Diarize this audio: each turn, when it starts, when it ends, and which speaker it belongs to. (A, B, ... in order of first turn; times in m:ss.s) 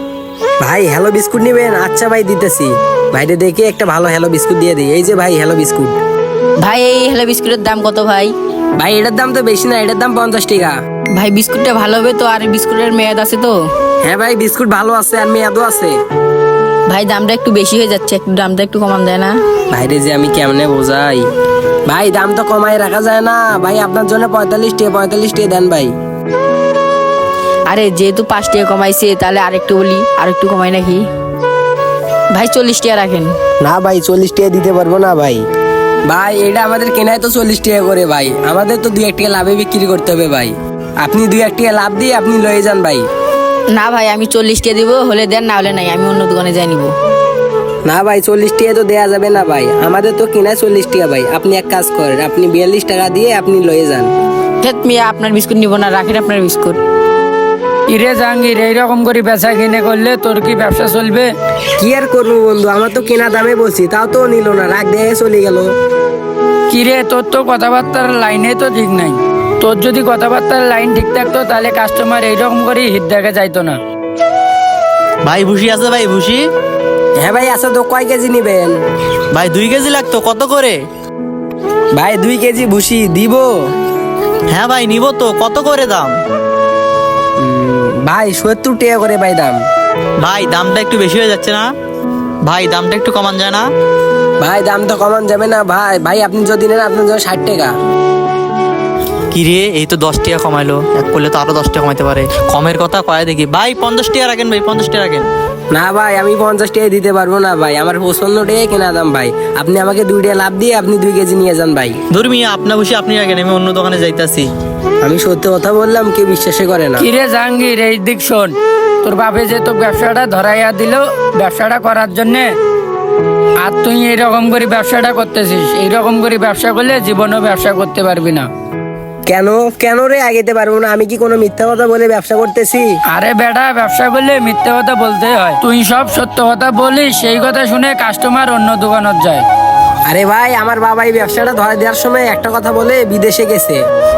0:00.6-0:05.9 A
0:06.6-0:08.3 B
0:08.8-0:10.8 A
0:11.1-0:13.6 B
0:14.0-0:15.9 A
0:16.9-0:19.4 B
0:19.7-0:21.2 A
0:21.9-0:25.9 A
0:27.7-0:31.1 B
0:32.3-0:33.4 B
0:33.6-0:35.4 A
0:36.1-0:43.0 A
0:43.7-0:46.9 B
0:47.9-0:54.1 A
0:54.6-0:56.8 B
0:57.9-1:01.3 C
1:01.8-1:05.7 A
1:06.7-1:13.8 C
1:15.2-1:16.5 D
1:17.2-1:18.7 A
1:19.3-1:20.8 D
1:22.0-1:23.5 A
1:24.5-1:26.2 D
1:27.4-1:29.6 A
1:30.2-1:31.7 D
1:32.4-1:33.7 D
1:34.4-1:37.7 A
1:39.3-1:45.3 D
1:45.7-1:52.0 A
1:52.1-1:54.5 D
1:55.0-1:57.1 A
1:57.0-2:02.5 C
2:03.6-2:08.5 C
2:09.3-2:12.9 A
2:13.1-2:19.5 C
2:20.1-2:23.8 A